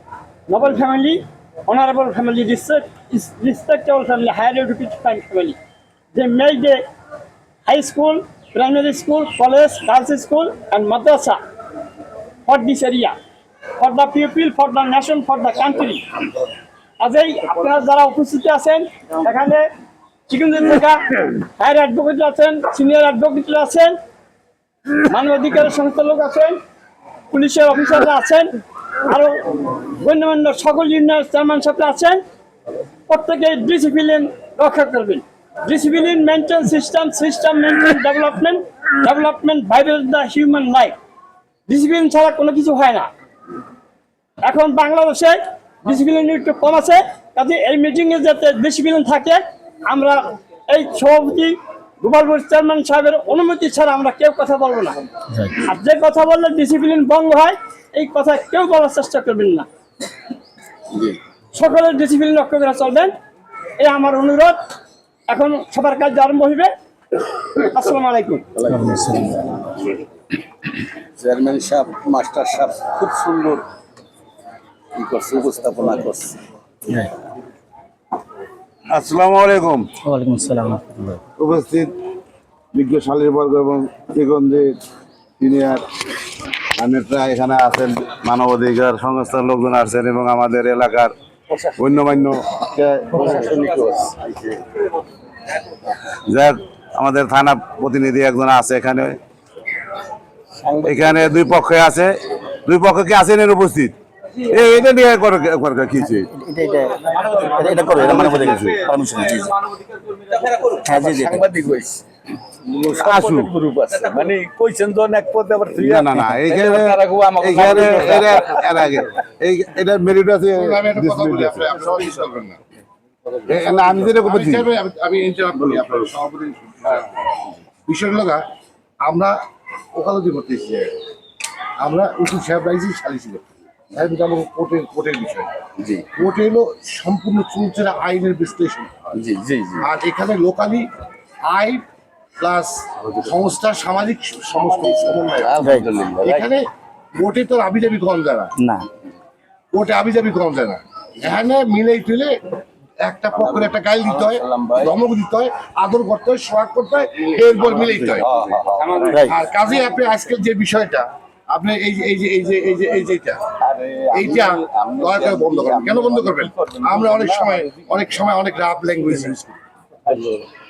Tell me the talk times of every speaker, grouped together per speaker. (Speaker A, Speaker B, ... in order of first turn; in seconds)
Speaker A: 0.5-5.6, 6.1-6.8, 7.6-11.4, 12.4-13.2, 13.8-16.3, 17.0-19.7, 20.3-24.0, 25.0-26.6, 27.3-32.2, 33.1-41.0, 41.7-43.1, 44.4-59.7, 61.5-63.1, 63.8-64.6, 65.3-66.7, 67.5-68.5
Speaker B: 68.5-69.8, 71.2-73.7, 74.9-76.4, 91.5-91.8, 93.1-94.6, 100.6-101.6, 110.1-112.0, 112.6-118.7, 135.8-136.1, 139.1-139.9, 145.4-146.5, 153.3-154.9, 157.6-159.3, 163.6-168.0, 170.1-170.4
Speaker C: 68.7-69.4, 80.0-81.2, 106.3-109.5, 110.8-111.4, 148.6-148.8
Speaker D: 78.9-79.9, 81.4-81.9, 82.7-84.8, 85.4-85.8, 86.8-91.1, 91.8-93.5, 96.2-99.2, 100.8-106.3, 107.9-108.8, 113.0-113.5, 115.8-121.6, 123.5-124.7
Speaker E: 120.5-122.6, 123.5-127.1, 127.8-128.4, 129.0-129.4, 129.9-130.9, 131.8-135.5, 136.1-139.2, 139.8-140.9, 141.5-141.8, 142.4-148.5, 149.7-152.4, 153.0-158.3, 158.9-163.4, 164.1-169.6